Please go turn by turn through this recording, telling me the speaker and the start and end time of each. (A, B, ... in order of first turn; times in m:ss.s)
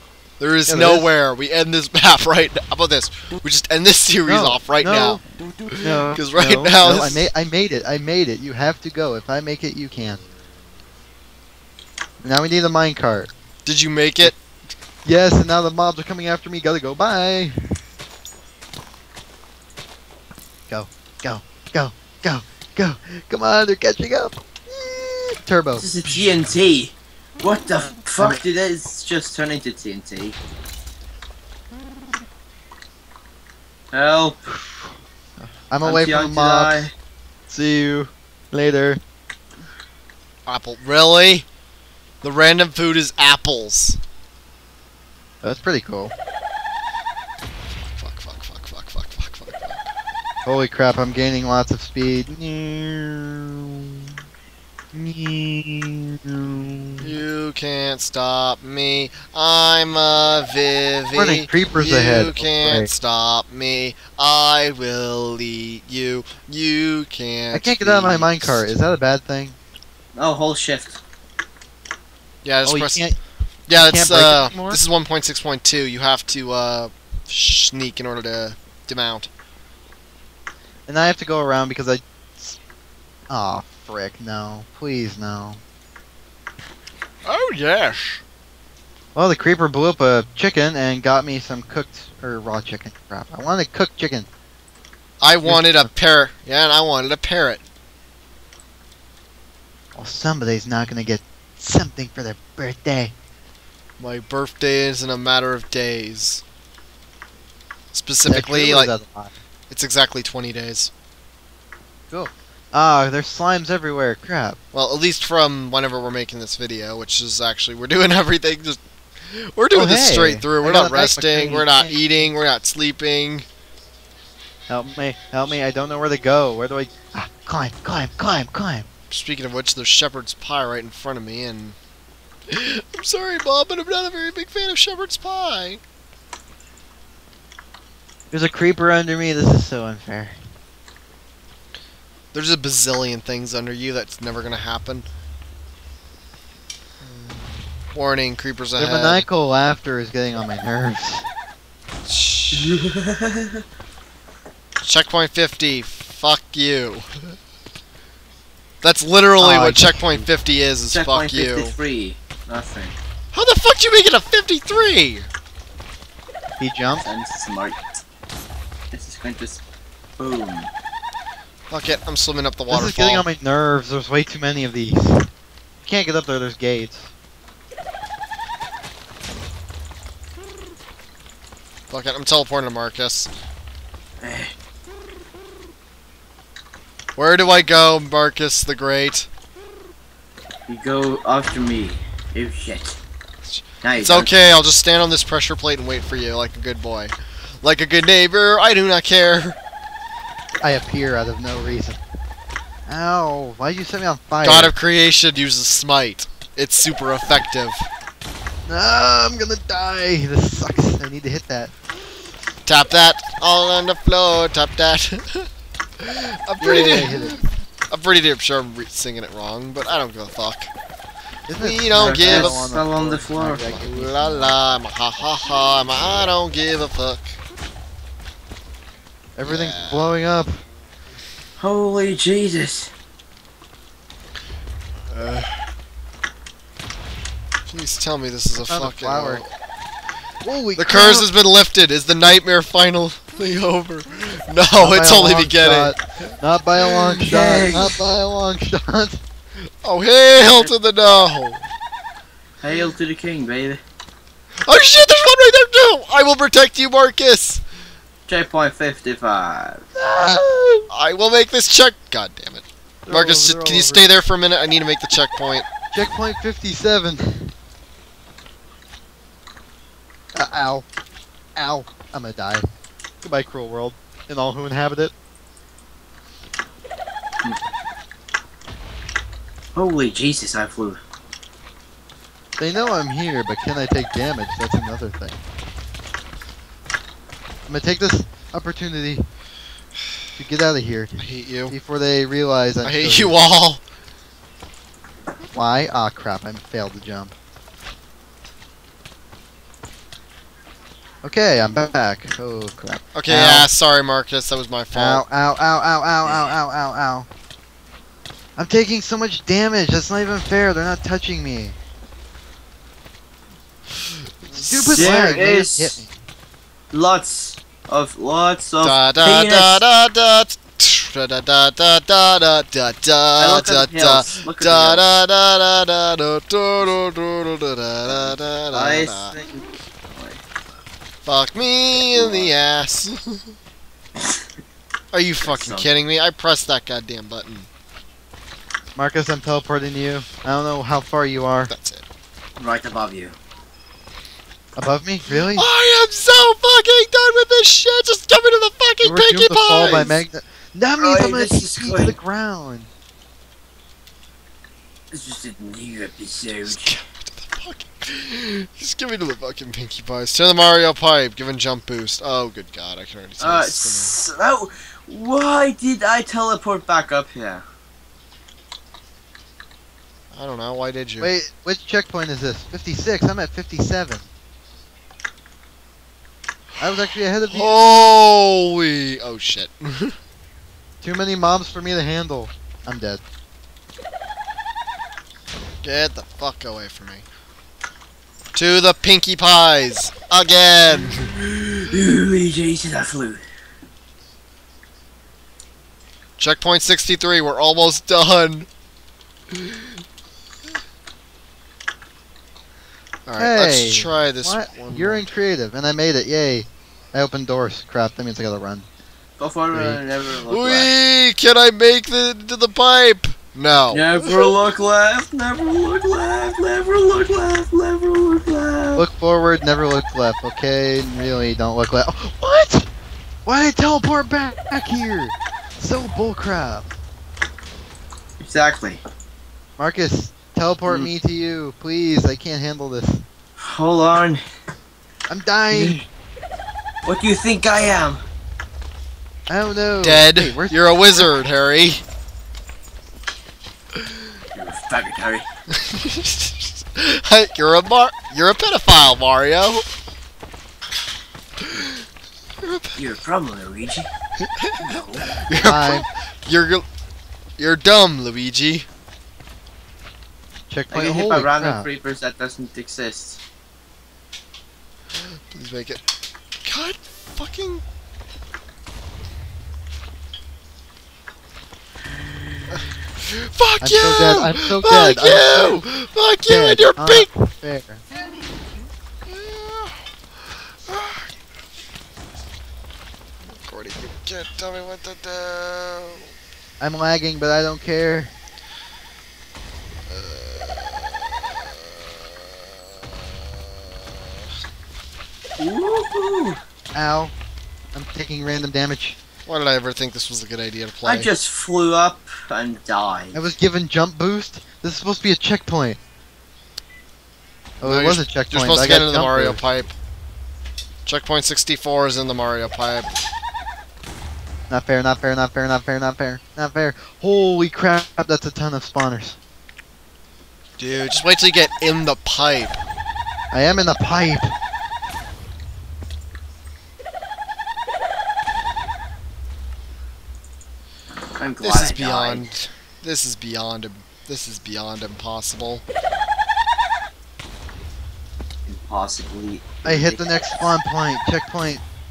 0:00.4-0:07.3 A
0:00.7-0:01.1 B
0:04.2-0:05.2 B
0:05.8-0:10.2 B
0:12.2-0:13.3 B
0:13.6-0:14.4 A
0:15.0-0:17.5 B
0:20.7-0:25.9 B
0:25.7-0:30.4 C
0:33.9-0:34.4 C
0:34.5-0:36.9 B
0:35.8-0:36.9 C
0:37.5-0:39.0 B
0:40.5-0:41.4 A
0:42.2-0:44.0 A
0:45.4-0:46.1 B
0:47.8-0:49.8 A
0:50.4-0:53.6 B
0:54.9-0:57.2 B
0:57.0-1:08.7 A
1:01.1-1:02.9 B
1:07.5-1:09.6 B
1:10.1-1:11.0 C
1:12.4-1:13.1 A
1:12.6-1:13.2 B
1:13.7-1:19.3 A
1:13.7-1:14.8 B
1:20.9-1:22.6 B
1:23.3-1:25.6 B
1:27.2-1:28.2 A
1:29.1-1:34.3 B
1:35.2-1:37.6 A
1:35.4-1:35.9 B
1:39.9-1:43.1 B
1:44.0-1:46.4 A
1:47.9-1:48.9 A
1:48.2-1:49.3 B
1:49.7-1:50.9 A
1:52.1-1:54.6 B
1:54.7-2:03.4 A
1:59.7-2:02.3 B
2:04.7-2:08.9 B
2:09.1-2:11.8 A
2:12.5-2:15.8 A
2:18.3-2:20.4 B
2:22.3-2:25.0 A
2:27.0-2:29.3 A
2:28.8-2:31.3 B
2:32.1-2:33.0 A
2:32.5-2:33.6 C
2:34.8-2:37.0 A
2:38.8-2:41.7 A
2:39.4-2:40.3 B
2:40.8-2:42.9 C
2:43.3-2:45.3 A
2:46.6-2:47.1 B
2:47.0-2:47.8 C
2:48.9-2:49.6 C
2:50.2-2:50.7 C
2:51.7-2:53.3 A
2:52.7-2:55.3 B
2:55.8-2:57.1 B
3:01.9-3:03.3 A
3:04.2-3:04.5 C
3:07.2-3:09.3 A
3:10.7-3:13.0 C
3:13.5-3:19.6 A
3:13.8-3:14.3 C
3:20.6-3:22.0 B
3:22.9-3:24.7 B
3:24.4-3:27.9 A
3:28.7-3:31.7 B
3:32.6-3:35.5 A
3:36.0-3:37.4 A
3:36.6-3:37.5 B
3:37.9-3:40.7 A
3:41.5-3:44.6 B
3:41.6-3:42.8 A
3:42.0-3:43.6 C
3:43.5-3:47.4 A
3:49.4-3:50.6 B
3:49.4-3:50.2 A
3:51.6-3:52.9 C
3:55.1-3:55.6 A
3:57.7-3:59.5 A
3:58.6-3:59.4 B
4:00.4-4:01.3 B
4:00.8-4:07.8 A
4:04.8-4:09.2 B
4:07.2-4:08.0 C
4:09.8-4:11.7 A
4:10.4-4:10.7 C
4:12.6-4:13.8 C
4:14.6-4:17.6 A
4:18.3-4:19.8 C
4:20.0-4:20.9 B
4:20.9-4:25.6 A
4:23.0-4:24.1 B
4:25.9-4:27.5 B
4:30.3-4:30.9 B
4:31.6-4:32.6 B
4:33.2-4:35.1 B
4:39.7-4:41.0 C
4:42.6-4:45.4 B
4:47.7-4:49.2 B
4:50.4-4:53.4 B
4:51.2-4:51.8 A
4:52.8-4:53.8 A
4:55.5-4:57.3 B
5:01.2-5:03.7 B
5:03.1-5:05.2 A
5:04.9-5:07.3 B
5:08.6-5:11.8 B
5:14.4-5:15.3 A
5:14.5-5:16.1 B
5:14.9-5:16.0 C
5:16.9-5:19.8 C
5:18.8-5:29.4 A
5:23.4-5:25.0 C
5:28.0-5:30.4 C
5:31.2-5:33.4 A
5:32.1-5:32.5 C
5:35.1-5:37.7 A
5:35.4-5:35.9 C
5:39.0-5:41.7 B
5:41.7-5:42.0 A
5:42.6-5:43.3 C
5:44.8-5:45.7 B
5:45.4-5:50.2 A
5:49.0-5:52.9 B
5:51.0-5:52.2 C
5:55.1-5:56.9 C
5:56.6-6:04.2 A
6:03.4-6:07.6 C
6:10.3-6:11.3 A
6:11.2-6:14.3 B
6:16.8-6:17.7 B
6:17.5-6:20.1 A
6:21.0-6:23.2 B
6:25.8-6:27.2 A
6:28.5-6:31.3 A
6:31.8-6:33.4 C
6:36.4-6:38.7 A
6:43.3-6:45.3 A
6:43.4-6:48.8 B
6:49.4-6:50.9 C
6:49.7-6:50.0 B
6:50.5-6:54.5 A
6:53.9-6:59.0 C
6:59.0-7:02.9 B
7:03.4-7:06.9 B
7:08.4-7:09.0 C
7:09.8-7:13.2 B
7:13.6-7:14.4 C
7:15.3-7:16.0 B
7:15.7-7:16.0 C
7:17.0-7:18.2 C
7:19.5-7:21.4 B
7:20.0-7:22.0 A
7:24.5-7:25.5 C
7:25.7-7:29.8 A
7:31.6-7:32.0 A
7:32.6-7:33.0 A
7:32.9-7:34.1 C
7:34.4-7:36.8 A
7:34.8-7:35.4 C
7:35.6-7:36.1 B
7:37.6-7:38.9 A
7:40.7-7:41.9 B
7:40.9-7:43.4 C
7:45.5-7:46.0 A
7:46.6-7:47.8 A
7:52.7-7:57.3 A
7:53.8-7:55.9 B
7:56.4-7:58.0 B
7:59.3-8:00.0 A
8:00.9-8:01.3 A
8:03.6-8:06.3 A
8:06.8-8:08.3 B
8:10.1-8:11.2 A
8:15.6-8:16.6 C
8:16.9-8:17.3 B
8:17.9-8:19.2 B
8:19.4-8:21.3 A
8:21.0-8:23.4 C
8:23.3-8:26.0 B
8:27.8-8:29.6 B
8:27.8-8:29.9 A
8:31.0-8:33.1 A
8:34.7-8:39.4 B
8:40.8-8:42.8 A
8:43.5-8:44.5 B
8:51.3-8:52.4 C
8:51.6-8:55.8 A
8:58.7-9:00.7 C
8:59.8-9:01.8 B